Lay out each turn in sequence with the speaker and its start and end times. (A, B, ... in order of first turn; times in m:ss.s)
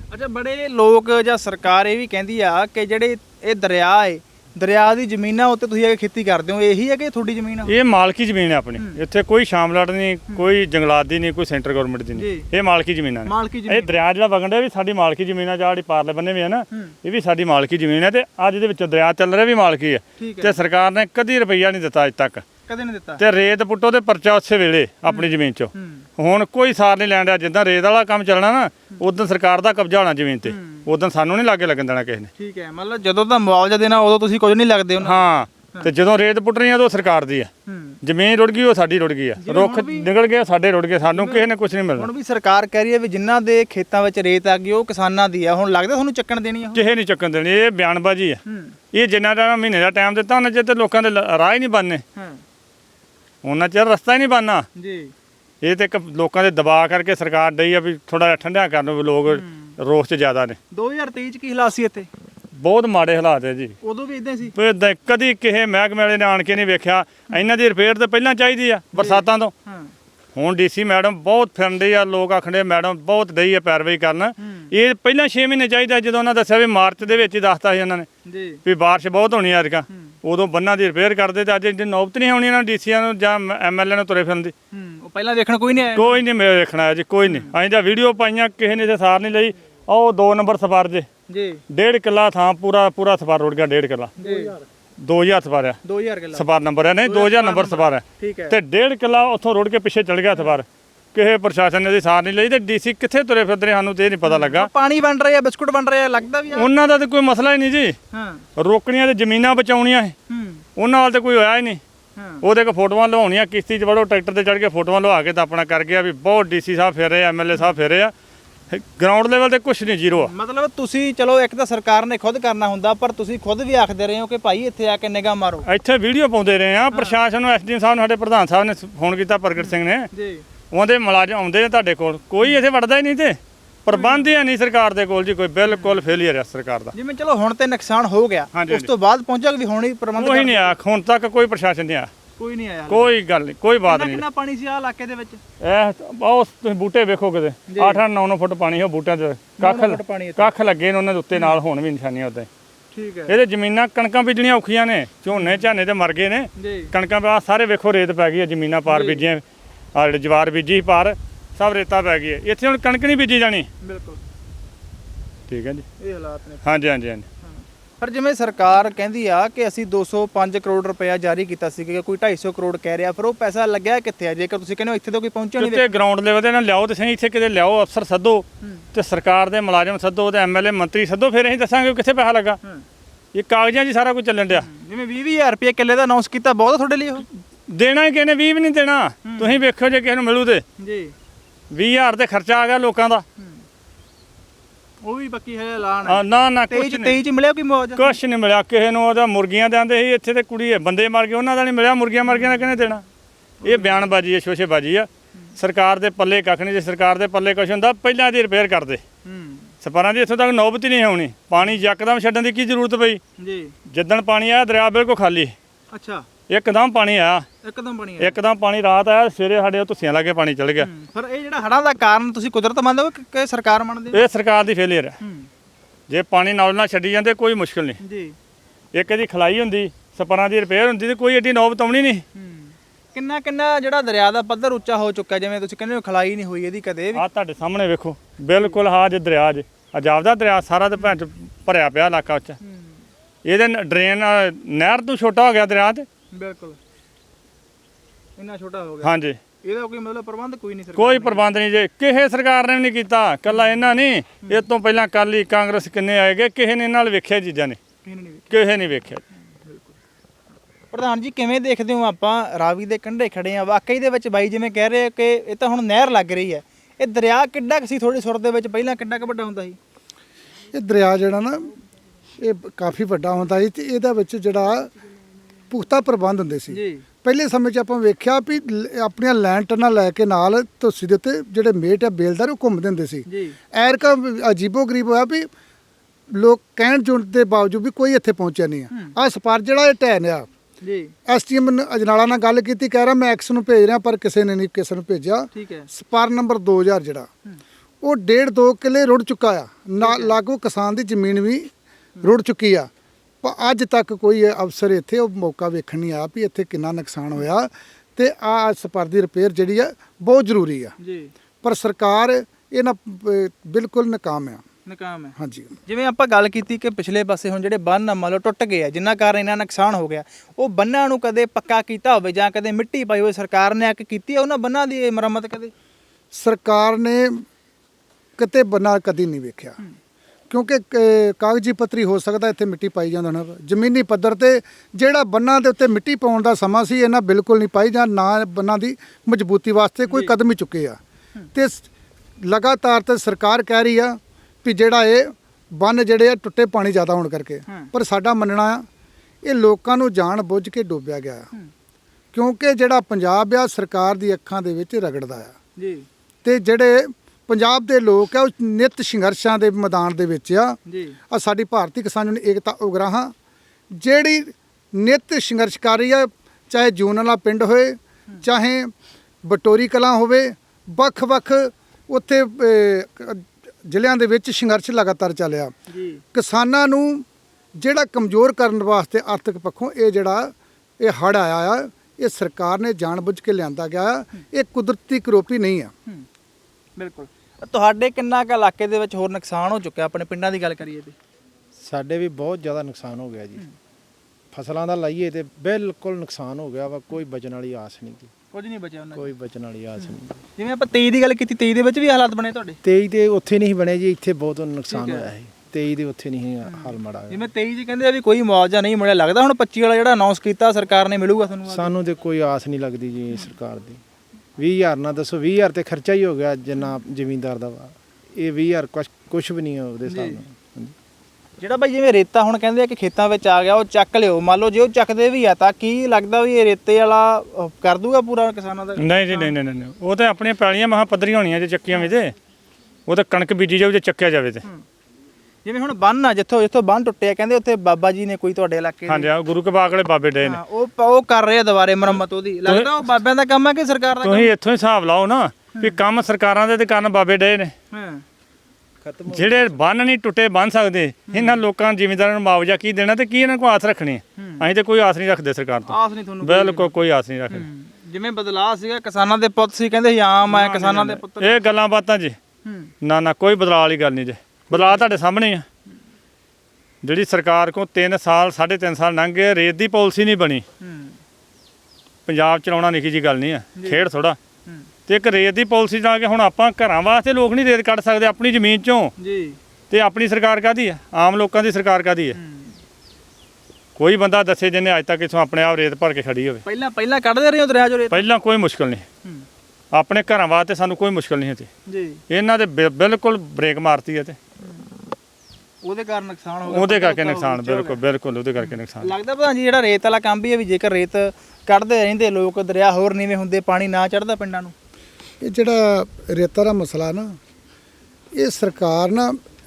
0:00.1-0:07.7 A
0:07.6-0:22.4 B
0:12.2-0:12.5 A
0:13.2-0:13.9 A
0:20.2-0:20.6 A
0:22.7-0:23.2 A
0:23.2-0:32.3 B
0:25.1-0:26.0 A
0:30.4-0:30.9 A
0:32.4-0:35.9 A
0:35.0-0:37.5 B
0:37.7-0:38.0 A
0:38.0-0:42.1 B
0:39.4-0:40.1 A
0:41.0-0:46.8 A
0:46.7-0:48.4 B
0:48.5-0:48.8 A
0:48.9-0:52.0 B
0:52.2-0:52.4 A
0:53.4-0:54.6 B
0:54.8-0:55.1 A
0:55.6-1:00.6 B
0:59.3-0:59.7 A
1:00.7-1:02.1 A
1:02.6-1:03.8 B
1:03.8-1:04.5 A
1:04.5-1:09.5 B
1:08.9-1:09.9 A
1:10.3-1:18.1 B
1:14.4-1:14.7 A
1:18.2-1:18.6 A
1:18.6-1:24.5 B
1:24.7-1:26.2 A
1:25.9-1:31.0 B
1:27.2-1:27.5 A
1:31.3-1:31.6 A
1:31.7-1:34.1 B
1:34.2-1:34.6 A
1:35.0-1:35.8 B
1:35.8-1:36.4 A
1:36.3-1:44.7 B
1:37.0-1:38.6 A
1:44.2-1:46.7 A
1:46.5-1:48.0 B
1:48.1-1:48.4 A
1:48.6-1:50.2 B
1:50.3-1:50.6 A
1:50.8-1:51.8 B
1:52.2-1:52.4 A
1:52.4-1:58.1 B
1:58.7-2:00.3 B
2:00.2-2:05.6 A
2:05.6-2:10.1 B
2:06.9-2:07.2 A
2:09.6-2:10.4 A
2:10.7-2:16.9 B
2:13.9-2:14.4 A
2:15.7-2:16.0 A
2:16.9-2:20.8 A
2:18.5-2:18.9 B
2:20.2-2:22.1 B
2:22.4-2:23.1 A
2:22.9-2:24.2 B
2:23.8-2:25.4 A
2:25.6-2:32.5 B
2:27.7-2:28.0 A
2:29.6-2:30.5 A
2:32.9-2:33.4 A
2:33.3-2:39.4 B
2:35.3-2:35.6 A
2:36.6-2:36.9 A
2:38.9-2:39.3 A
2:39.9-2:43.7 B
2:43.8-2:44.2 A
2:45.5-2:45.8 B
2:46.0-2:46.6 A
2:46.6-2:47.2 B
2:48.0-2:55.9 A
2:55.6-3:02.6 B
3:03.3-3:04.7 B
3:04.5-3:07.2 A
3:07.7-3:10.6 B
3:09.2-3:09.6 A
3:10.8-3:11.1 A
3:11.7-3:13.2 B
3:15.0-3:18.2 A
3:16.1-3:17.2 B
3:18.0-3:23.0 B
3:22.3-3:22.6 A
3:23.6-3:24.1 A
3:23.6-3:29.0 B
3:29.2-3:29.7 A
3:29.8-3:33.2 B
3:33.4-3:33.7 A
3:33.9-3:35.5 B
3:35.9-3:36.2 A
3:36.5-3:37.4 B
3:37.6-3:38.4 A
3:38.2-3:40.9 B
3:40.8-3:44.2 A
3:44.1-3:45.2 B
3:45.2-3:45.5 A
3:46.1-3:48.0 B
3:48.0-3:48.3 A
3:48.9-3:52.2 B
3:52.3-3:57.2 A
3:57.1-4:02.6 B
4:03.4-4:06.0 B
4:06.3-4:06.8 A
4:08.4-4:09.1 A
4:09.0-4:09.4 B
4:09.6-4:11.4 A
4:11.0-4:17.8 B
4:18.0-4:18.5 A
4:18.5-4:19.2 B
4:20.9-4:29.8 A
4:30.7-4:31.7 C
4:32.4-4:34.9 C
4:35.7-4:45.5 C
4:36.7-4:37.0 A
4:43.3-4:43.6 A
4:46.3-4:50.5 C
4:50.8-4:51.1 A
4:51.3-4:57.3 C
4:55.5-4:55.9 A
4:58.0-5:01.7 C
5:00.0-5:00.4 A
5:02.2-5:02.9 C
5:03.4-5:10.9 C
5:11.0-5:11.3 A
5:11.6-5:14.6 C
5:14.8-5:15.3 A
5:15.4-5:15.7 C
5:15.8-5:25.7 A
5:26.3-5:27.4 C
5:28.4-5:29.8 C
5:30.5-5:41.0 C
5:41.5-5:41.9 C
5:42.4-5:48.8 C
5:49.4-5:51.5 C
5:52.3-5:55.5 C
5:55.8-5:56.0 A
5:56.4-6:00.8 C
6:00.9-6:01.2 A
6:01.3-6:03.3 C
6:03.9-6:08.9 C
6:09.4-6:15.7 C
6:15.9-6:16.2 A
6:16.3-6:17.2 C
6:17.8-6:25.9 C
6:27.0-6:31.1 A
6:31.8-6:33.7 D
6:34.5-6:38.3 D
6:38.5-6:39.3 A
6:39.1-6:40.4 D
6:40.0-6:42.8 A
6:42.8-6:47.5 D
6:44.9-6:45.3 A
6:46.6-6:52.0 A
6:51.7-6:54.0 D
6:54.6-7:00.9 D
7:00.0-7:00.4 A
7:01.6-7:09.6 A
7:09.0-7:12.3 B
7:13.1-7:14.6 B
7:15.6-7:19.3 A
7:19.1-7:20.6 B
7:20.4-7:24.5 A
7:24.2-7:27.7 B
7:27.9-7:28.2 A
7:29.0-7:29.7 D
7:29.3-7:37.6 B
7:31.3-7:31.6 A
7:34.4-7:34.6 A
7:35.9-7:36.9 A
7:37.5-7:41.6 A
7:40.5-7:42.4 B
7:42.6-7:42.9 A
7:43.0-7:45.6 B
7:44.7-7:45.1 A
7:47.0-7:50.6 B
7:50.8-7:51.2 A
7:52.2-7:54.4 B
7:53.8-7:54.0 A
7:55.1-7:59.1 B
7:59.2-7:59.6 A
7:59.9-8:02.4 B
8:02.4-8:02.8 A
8:04.0-8:06.6 B
8:06.6-8:08.2 A
8:08.1-8:09.0 B
8:09.9-8:11.7 B
8:11.9-8:12.2 A
8:12.3-8:14.4 B
8:15.8-8:18.0 A
8:16.6-8:19.1 B
8:18.6-8:24.7 A
8:25.4-8:27.4 C
8:28.3-8:29.4 C